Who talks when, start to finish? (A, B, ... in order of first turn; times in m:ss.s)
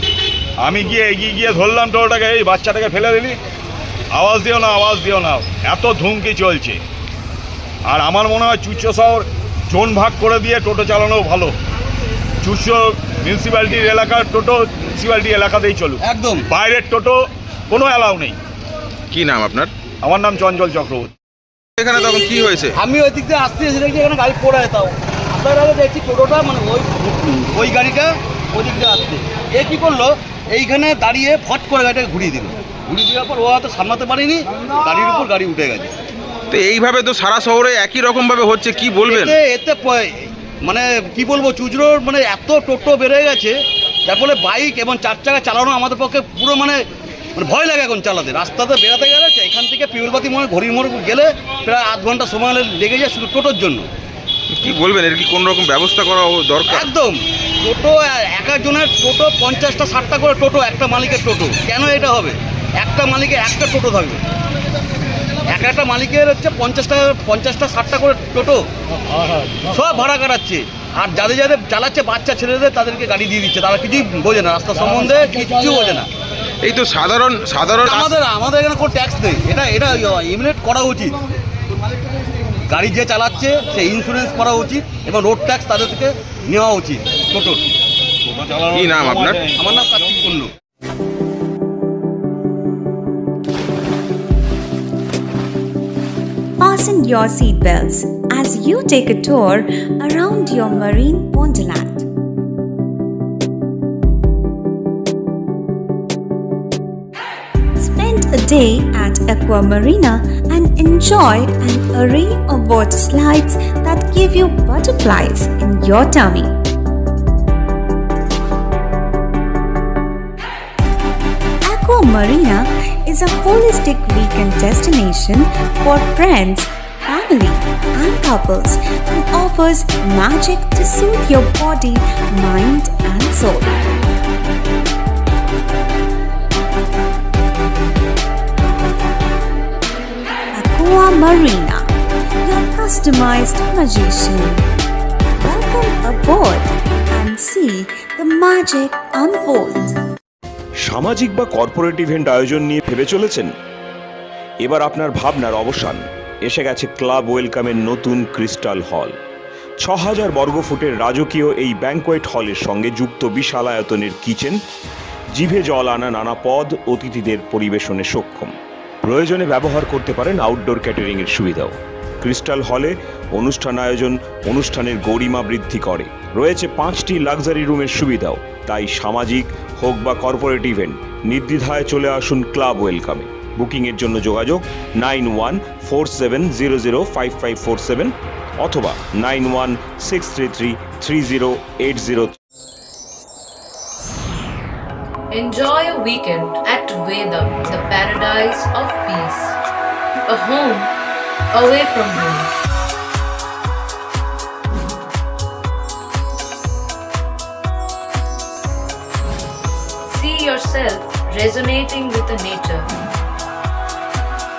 0:00.6-0:03.4 A
0:04.1-0:06.8 A
0:07.9-0:11.5 A
0:12.4-0:18.4 A
0:16.0-0:16.5 B
0:19.1-0:19.7 C
0:20.0-0:21.1 A
0:21.8-0:22.7 C
0:22.8-0:35.9 B
0:36.5-0:39.3 C
0:39.0-0:46.8 B
0:47.4-0:53.9 B
0:54.5-0:56.8 C
0:56.7-1:04.2 B
1:05.5-1:08.6 B
1:09.7-1:16.1 B
1:16.6-1:18.1 C
1:17.8-1:21.2 B
1:22.7-1:27.6 B
1:28.2-1:29.9 A
1:28.7-1:29.5 C
1:29.5-1:30.5 B
1:36.6-1:42.1 D
1:47.8-1:56.5 D
2:01.6-2:13.8 D
2:20.5-2:21.9 D
2:22.4-2:24.6 D
2:25.4-2:30.0 D
2:30.8-2:33.5 E
2:34.6-2:39.1 E
2:39.8-2:44.6 E
2:45.3-3:12.3 E
3:15.3-3:19.5 F
3:20.3-3:20.8 F
3:21.5-3:22.5 F
3:30.1-3:32.9 F